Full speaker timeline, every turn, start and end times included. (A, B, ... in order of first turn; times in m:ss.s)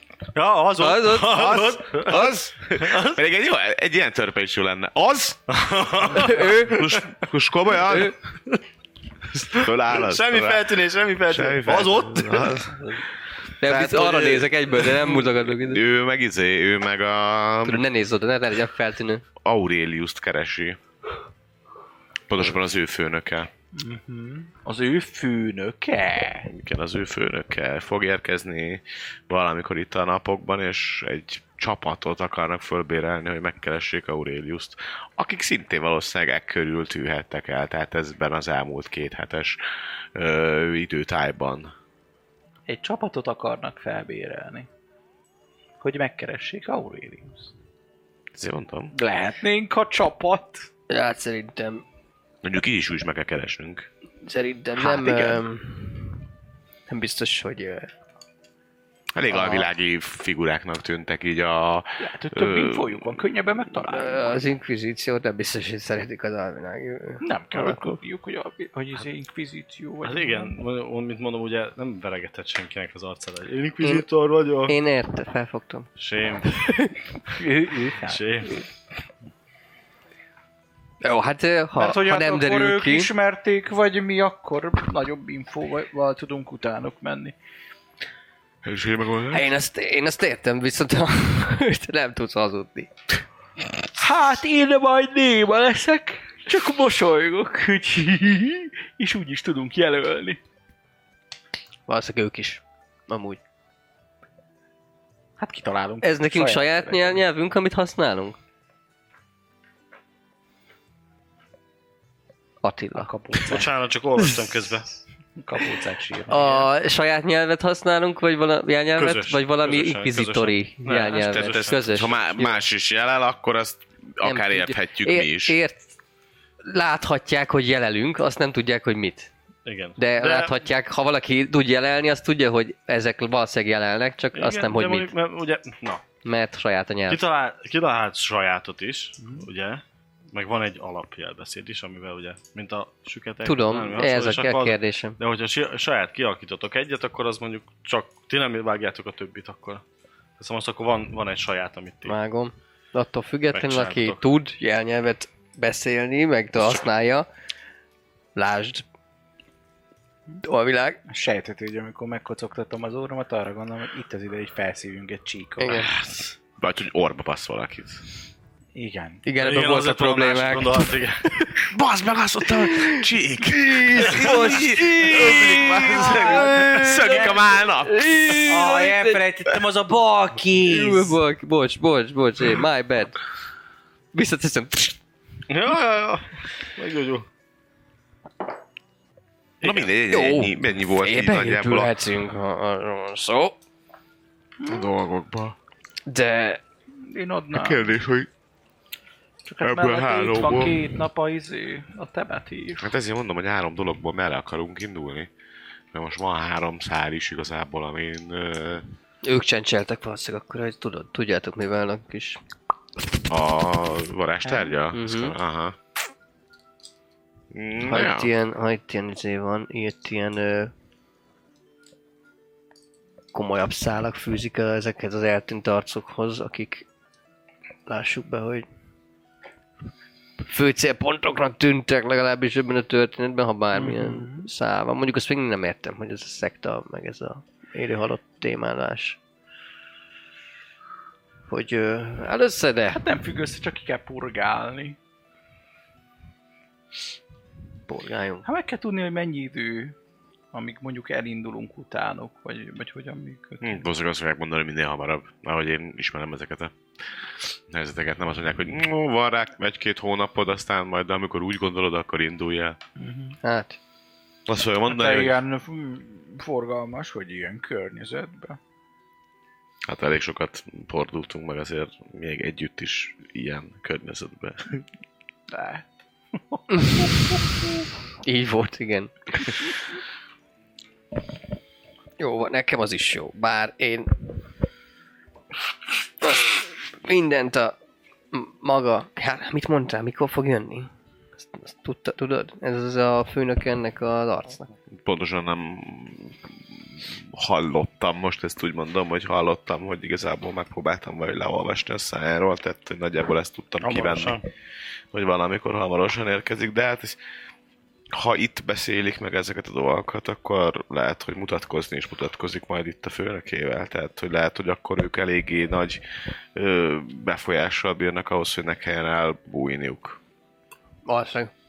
0:00.3-0:03.2 A
0:00.8-0:01.4 B
0:01.3-0:05.4 C
0:05.5-0:07.1 A
0:06.1-0:08.1 C
0:06.2-0:06.8 B
0:09.4-0:12.7 A
0:09.4-0:10.7 C
0:11.3-0:12.9 C
0:13.6-0:15.8 B
0:13.7-0:14.5 A
0:13.7-0:14.3 C
0:15.5-0:17.8 C
0:17.6-0:19.2 B
0:19.4-0:20.8 C
0:22.3-0:23.5 C
0:23.7-0:26.5 D
0:26.4-0:39.6 C
0:40.1-0:41.7 C
0:42.7-0:44.7 D
0:45.8-0:47.5 D
0:48.3-0:48.9 C
0:48.9-0:50.7 D
0:50.9-0:51.8 B
0:52.4-0:53.9 C
0:54.2-0:56.2 B
0:54.8-0:55.4 D
0:56.9-0:57.9 B
0:59.1-1:03.2 C
0:59.3-0:59.7 B
1:02.0-1:04.5 D
1:03.8-1:07.8 B
1:07.2-1:10.6 D
1:10.0-1:14.8 A
1:14.7-1:15.9 B
1:16.0-1:16.7 A
1:16.6-1:16.9 B
1:17.3-1:18.2 D
1:18.1-1:18.6 A
1:21.0-1:23.1 B
1:21.8-1:27.3 D
1:28.6-1:29.5 C
1:29.3-1:32.9 B
1:34.0-1:40.4 D
1:41.9-1:43.4 B
1:45.4-1:47.2 D
1:46.0-1:48.4 B
1:52.6-1:53.1 B
1:52.9-1:53.7 D
1:53.4-1:54.9 A
1:55.4-1:56.7 D
1:56.3-2:02.6 B
1:59.0-2:02.0 A
2:01.3-2:05.6 C
2:04.2-2:05.8 B
2:06.6-2:09.3 B
2:09.6-2:10.6 A
2:10.0-2:15.1 B
2:14.3-2:16.0 A
2:16.2-2:17.2 B
2:17.1-2:29.8 A
2:19.2-2:19.4 D
2:23.4-2:25.2 B
2:30.4-2:32.1 A
2:32.0-2:37.3 B
2:33.5-2:34.2 A
2:38.3-2:38.8 B
2:40.4-2:41.0 B
2:41.1-2:45.9 D
2:45.6-2:45.9 B
2:45.7-2:48.0 C
2:48.7-2:49.2 D
2:49.2-2:51.7 B
2:49.4-2:51.2 A
2:51.7-2:58.7 C
2:52.5-2:59.2 B
2:54.1-2:57.5 D
2:58.4-3:01.2 D
3:00.6-3:03.2 B
3:04.1-3:05.0 B
3:05.5-3:07.2 A
3:09.6-3:11.9 C
3:10.1-3:13.6 B
3:14.6-3:15.6 C
3:16.1-3:16.6 B
3:17.0-3:17.9 D
3:17.5-3:18.3 C
3:19.4-3:22.9 D
3:19.6-3:20.9 C
3:22.8-3:25.3 C
3:25.9-3:28.8 C
3:29.2-3:32.4 B
3:33.3-3:35.8 C
3:34.9-3:35.4 B
3:37.5-3:38.3 C
3:37.8-3:40.7 B
3:43.3-3:46.8 B
3:47.9-3:48.6 B
3:50.4-3:59.2 B
3:53.7-3:54.5 D
4:01.5-4:03.0 B
4:02.9-4:05.0 D
4:07.9-4:08.5 B
4:08.4-4:09.9 D
4:10.5-4:13.8 D
4:13.6-4:16.7 C
4:17.7-4:22.8 C
4:23.0-4:23.4 D
4:23.4-4:23.8 B
4:24.5-4:25.4 C
4:24.9-4:28.6 D
4:29.9-4:34.8 C
4:35.5-4:35.8 D
4:36.5-4:37.4 D
4:36.7-4:37.0 B
4:38.2-4:39.5 B
4:42.2-4:44.3 B
4:46.2-4:47.8 B
4:48.3-4:54.7 B
4:55.0-5:04.4 C
5:03.8-5:04.4 A
5:05.1-5:07.2 C
5:08.1-5:16.0 C
5:16.5-5:20.2 C
5:21.0-5:21.5 B